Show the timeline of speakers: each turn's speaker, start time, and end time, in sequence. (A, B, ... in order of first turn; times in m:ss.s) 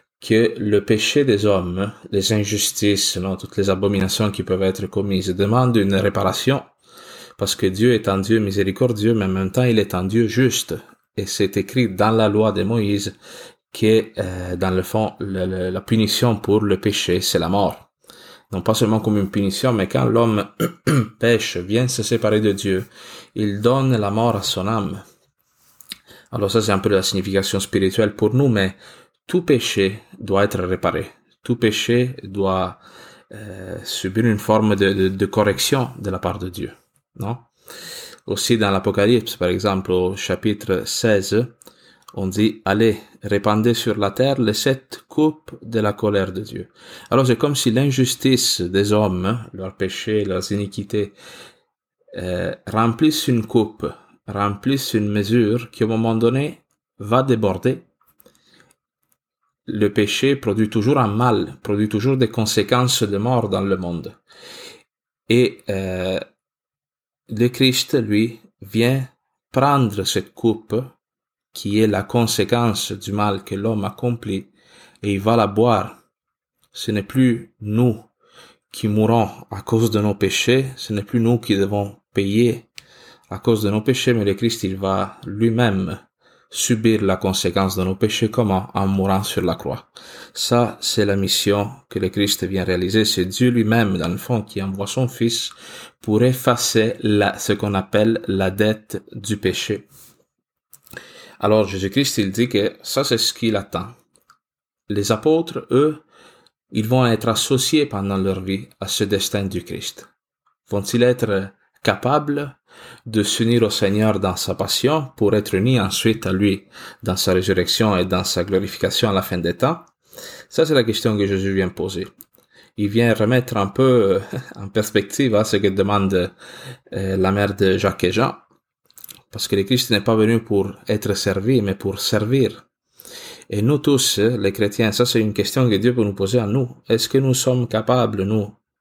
0:00.2-0:06.7 A
0:07.4-0:13.2 A
0:13.7-0:17.9 A
0:18.5-0:25.0 A
0:26.3-0:37.5 A
0:38.2-0:41.6 A
0:42.1-0:51.2 A
0:52.1-0:57.9 A
0:59.6-1:04.2 A
1:05.3-1:06.2 A
1:07.3-1:11.0 A
1:11.5-1:16.0 A
1:16.7-1:18.1 A
1:18.7-1:22.7 A
1:23.3-1:39.9 A
1:41.4-1:44.0 A
1:44.9-1:46.0 A
1:46.7-1:50.1 A
1:50.6-1:59.9 A
2:00.5-2:02.1 A
2:02.8-2:06.3 A
2:06.9-2:08.4 A
2:09.3-2:12.6 A
2:13.5-2:18.6 A